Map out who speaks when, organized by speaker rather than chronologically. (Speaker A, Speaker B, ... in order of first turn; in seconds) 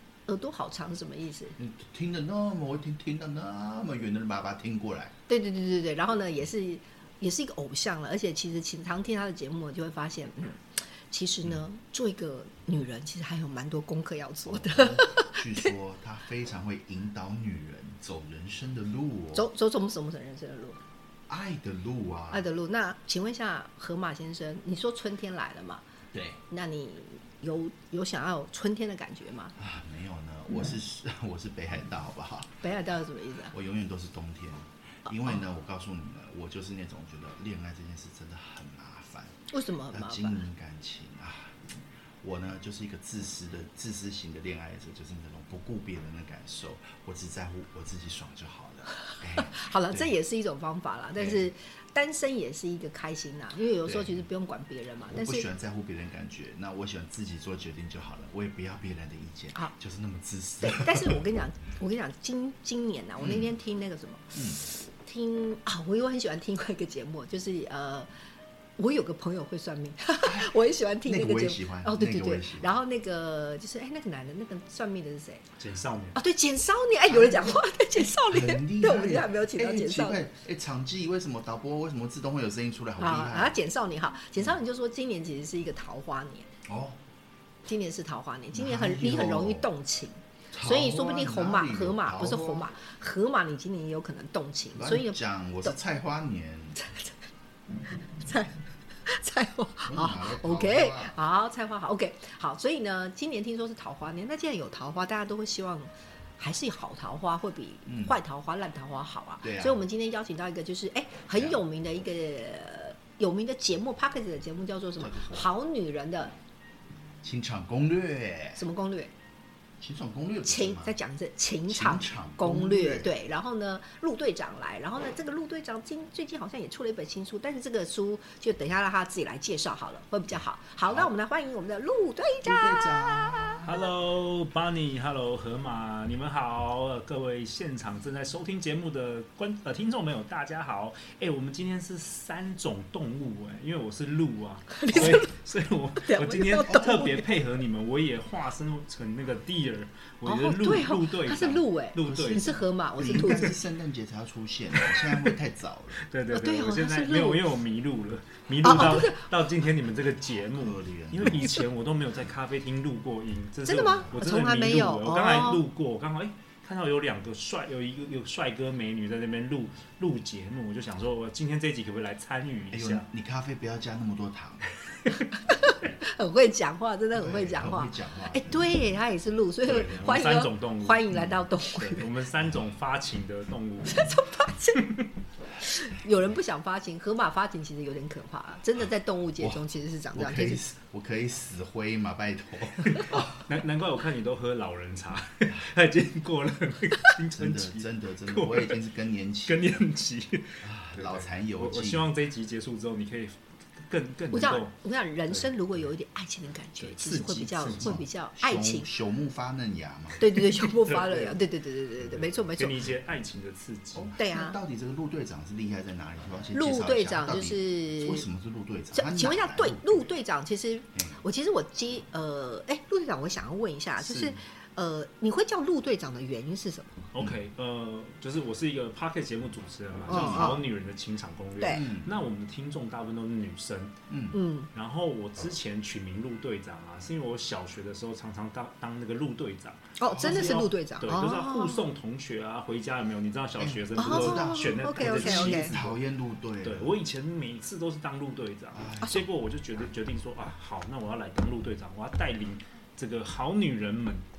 Speaker A: 0.3-1.6, 5.3-15.7, 19.4-20.8, 22.3-25.8, 26.5-29.6, 32.6-33.5, 39.5-40.4, 49.1-55.5, 60.6-68.1, 68.8-75.4, 76.2-80.2, 83.0-86.5, 87.7-95.8, 96.8-97.2, 98.1-116.3, 118.6-119.1, 120.5-133.8, 144.7-145.3, 146.0-147.2, 150.2-153.5, 156.3-157.4, 158.6-159.2, 163.7-165.6, 175.5-182.1, 183.9-184.9, 185.6-190.6, 204.3-208.9, 210.2-212.8, 214.2-214.6, 216.5-218.2, 218.9-227.0, 230.1-230.6, 231.6-231.9, 234.3-234.7, 240.0-241.8, 244.0-245.7
Speaker B: 1.6-5.1, 14.5-19.5, 21.3-22.5, 26.1-26.4, 29.6-32.6, 33.5-39.4, 39.9-50.1, 53.9-54.2, 55.1-61.2, 63.2-63.5, 64.3-64.6, 70.2-70.5, 71.0-72.8, 77.1-77.6, 78.3-83.6, 86.7-87.0, 88.5-89.7, 90.5-92.7, 94.8-96.8, 99.8-101.1, 107.9-108.2, 109.4-109.8, 111.3-111.6, 115.0-115.5, 117.2-118.6, 119.8-121.0, 121.7-123.1, 132.4-133.7, 144.9-145.2, 146.7-147.1, 152.0-156.0, 160.5-161.6, 172.7-174.7, 177.2-178.8, 190.1-193.5, 197.3-199.8, 200.6-202.1, 207.7-210.2, 213.9-220.1, 230.1-230.6, 231.7-232.1, 234.1-234.4, 240.1-240.6, 243.6-247.0, 248.7-249.2
Speaker C: 75.6-76.2, 133.6-152.6, 153.1-153.5, 154.8-155.3, 156.0-173.1, 179.6-184.2, 192.8-198.8, 199.5-204.8, 205.3-205.5, 206.8-208.0, 210.6-211.4, 212.2-214.1, 224.0-224.4, 227.1-234.0, 234.7-246.0, 246.6-254.2